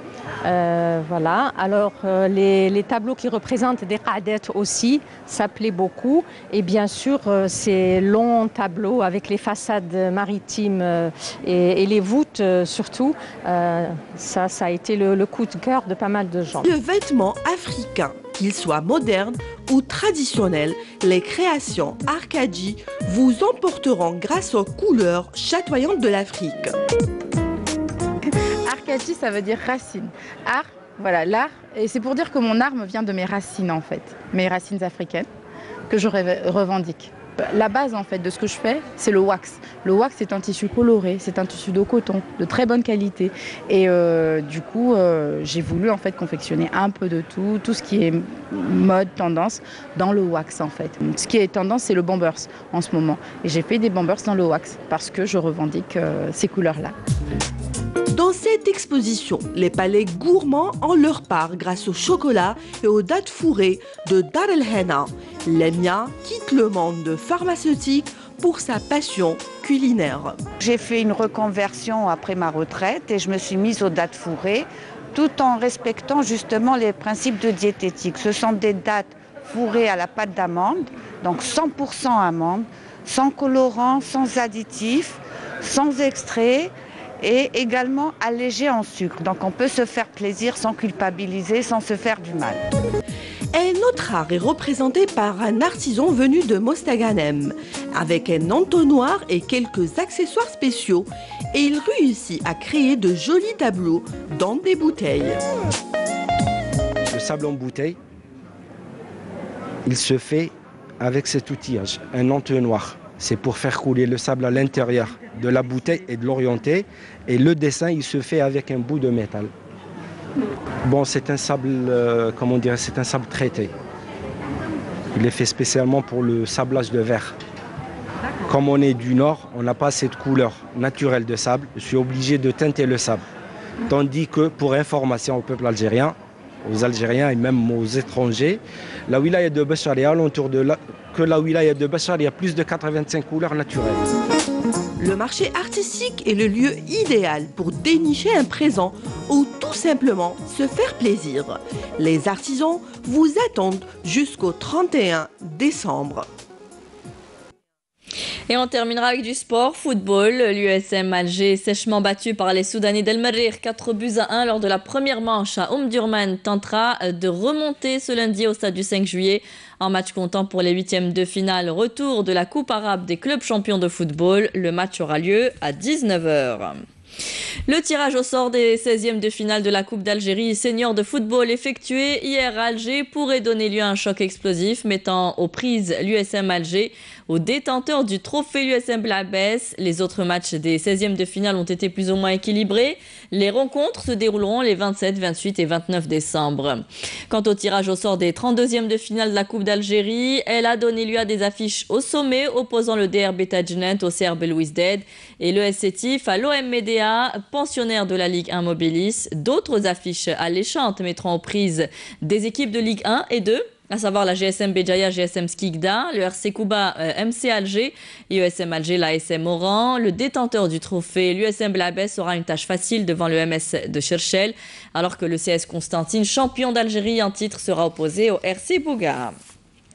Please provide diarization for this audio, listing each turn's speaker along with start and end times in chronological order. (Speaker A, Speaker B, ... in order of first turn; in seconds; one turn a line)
Speaker A: 0.4-16.6
Speaker B: 16.6-26.7
Speaker C: 28.3-35.3
Speaker C: 35.9-56.9
Speaker B: 58.1-70.4
Speaker D: 70.6-92.6
Speaker B: 93.5-105.4
Speaker E: 107.1-108.0
Speaker E: 109.8-119.5
Speaker E: 120.8-123.7
Speaker E: 125.1-127.3
Speaker E: 128.4-133.2
Speaker E: 133.9-136.2
Speaker E: 136.7-144.0
Speaker B: 145.0-156.3
Speaker F: 158.5-176.8
Speaker F: 177.7-229.3